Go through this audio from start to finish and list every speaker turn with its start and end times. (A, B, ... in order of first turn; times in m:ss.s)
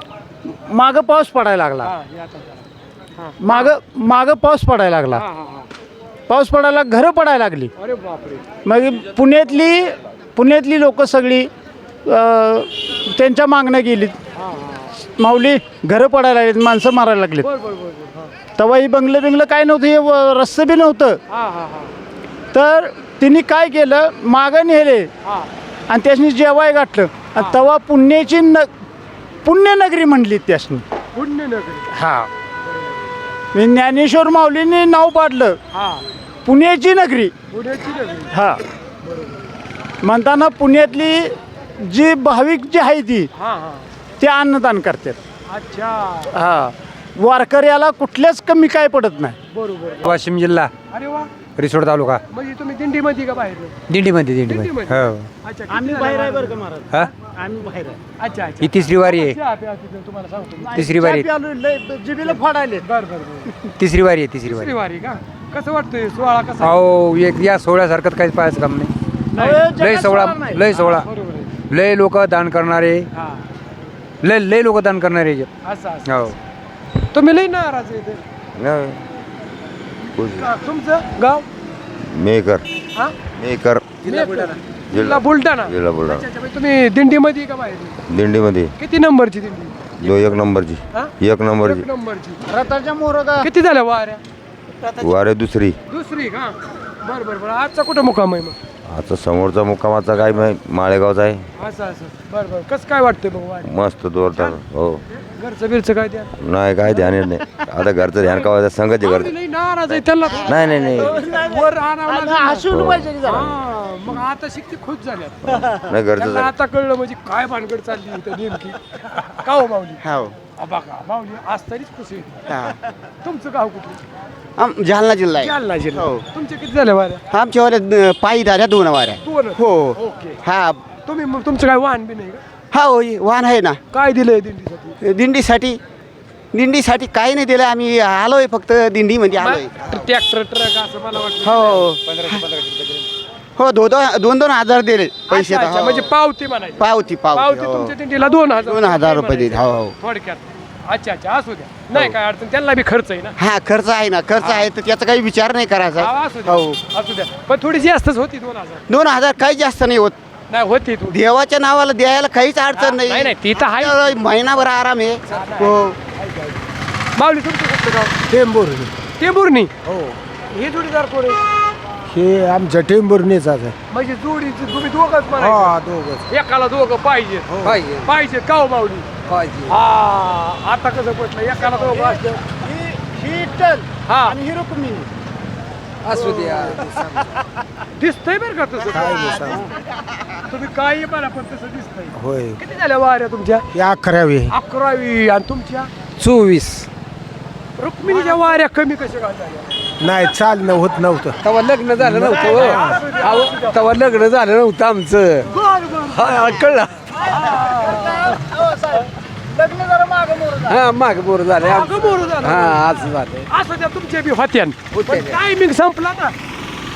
0:00.5-0:01.9 A
0:01.8-0:02.6 B
0:03.2-0:03.7 B
0:03.4-0:05.2 A
0:05.1-0:05.7 B
0:06.3-0:07.7 A
0:07.8-0:08.4 B
0:08.6-0:11.5 A
0:12.0-0:14.2 A
0:14.3-0:14.9 B
0:15.1-0:17.5 A
0:17.4-0:18.3 B
0:18.6-0:21.2 A
0:21.3-0:21.9 B
0:22.5-0:25.1 A
0:25.2-0:25.5 B
0:25.9-0:28.7 A
0:29.4-0:30.8 A
0:31.1-0:31.9 B
0:31.9-0:32.3 A
0:33.5-0:35.6 A
0:35.7-0:36.0 B
0:36.4-0:37.3 A
0:37.5-0:38.3 B
0:38.3-0:38.6 A
0:40.0-0:43.3 A
0:43.4-0:43.9 B
0:44.2-0:45.2 A
0:45.5-0:46.4 B
0:46.3-0:49.4 A
0:49.5-0:50.2 B
0:50.0-0:50.7 C
0:50.9-0:51.3 B
0:51.6-0:52.2 C
0:52.3-0:53.7 B
0:53.9-0:55.3 C
0:54.4-0:56.6 B
0:55.7-0:58.0 A
0:58.2-1:01.0 B
0:58.6-0:59.4 C
1:00.6-1:02.9 A
1:00.8-1:01.3 C
1:02.2-1:03.5 B
1:03.8-1:04.7 C
1:04.4-1:06.8 B
1:06.6-1:08.9 C
1:09.3-1:10.7 A
1:09.7-1:11.1 C
1:10.7-1:11.5 B
1:11.7-1:13.1 C
1:13.1-1:13.4 B
1:14.2-1:15.5 C
1:15.6-1:16.4 B
1:16.0-1:16.3 C
1:17.1-1:18.2 B
1:18.6-1:19.0 D
1:20.1-1:21.4 B
1:20.1-1:20.5 D
1:22.0-1:22.7 D
1:23.3-1:23.9 D
1:24.0-1:28.0 B
1:24.9-1:26.2 D
1:28.1-1:28.7 D
1:28.8-1:30.4 B
1:30.0-1:31.8 D
1:30.9-1:32.5 B
1:32.5-1:33.5 A
1:33.4-1:34.2 B
1:34.8-1:35.1 E
1:35.0-1:35.8 D
1:35.9-1:38.6 B
1:38.9-1:41.4 D
1:41.6-1:43.7 B
1:43.6-1:45.0 D
1:44.3-1:44.6 B
1:45.1-1:46.3 B
1:46.3-1:49.3 D
1:47.1-1:47.4 A
1:48.1-1:52.7 B
1:49.9-1:51.1 D
1:50.2-1:50.9 E
1:50.9-1:53.5 A
1:52.7-1:53.1 D
1:53.2-1:55.4 B
1:55.4-1:56.5 D
1:55.5-1:55.9 A
1:56.1-2:00.0 B
2:00.0-2:00.3 E
2:00.6-2:02.4 B
2:02.5-2:02.8 E
2:03.2-2:04.0 B
2:04.6-2:06.2 E
2:05.4-2:07.2 B
2:07.3-2:10.8 E
2:09.2-2:10.4 B
2:11.0-2:12.4 B
2:12.7-2:13.8 E
2:13.9-2:15.0 B
2:15.0-2:15.8 E
2:16.5-2:20.0 E
2:19.4-2:21.9 B
2:21.4-2:22.4 E
2:22.3-2:22.8 C
2:23.6-2:26.1 E
2:25.3-2:33.4 B
2:26.8-2:27.9 E
2:28.6-2:29.9 E
2:33.4-2:36.8 E
2:34.4-2:34.7 B
2:36.0-2:38.8 B
2:38.9-2:40.2 E
2:40.5-2:41.2 B
2:41.1-2:46.0 E
2:42.7-2:44.2 B
2:45.3-2:46.6 B
2:47.2-2:48.1 B
2:48.3-2:48.9 F
2:49.2-2:49.7 B
2:50.5-2:51.4 B
2:52.1-2:53.7 F
2:53.9-2:55.8 B
2:55.4-2:56.2 F
2:56.3-2:57.5 B
2:57.6-2:58.1 C
2:58.0-2:59.1 B
2:59.3-2:59.7 C
2:59.6-3:02.4 B
3:01.5-3:05.1 A
3:04.1-3:04.4 B
3:06.0-3:07.0 C
3:06.1-3:07.3 A
3:08.0-3:09.6 B
3:08.9-3:09.7 A
3:10.5-3:13.6 B
3:13.8-3:14.5 F
3:14.5-3:15.9 B
3:16.2-3:16.9 C
3:17.8-3:19.7 B
3:20.0-3:21.3 F
3:22.0-3:25.4 C
3:22.1-3:22.6 A
3:22.3-3:24.1 B
3:25.5-3:26.5 B
3:27.3-3:28.1 B
3:27.4-3:30.8 A
3:31.6-3:36.3 B
3:32.4-3:33.0 C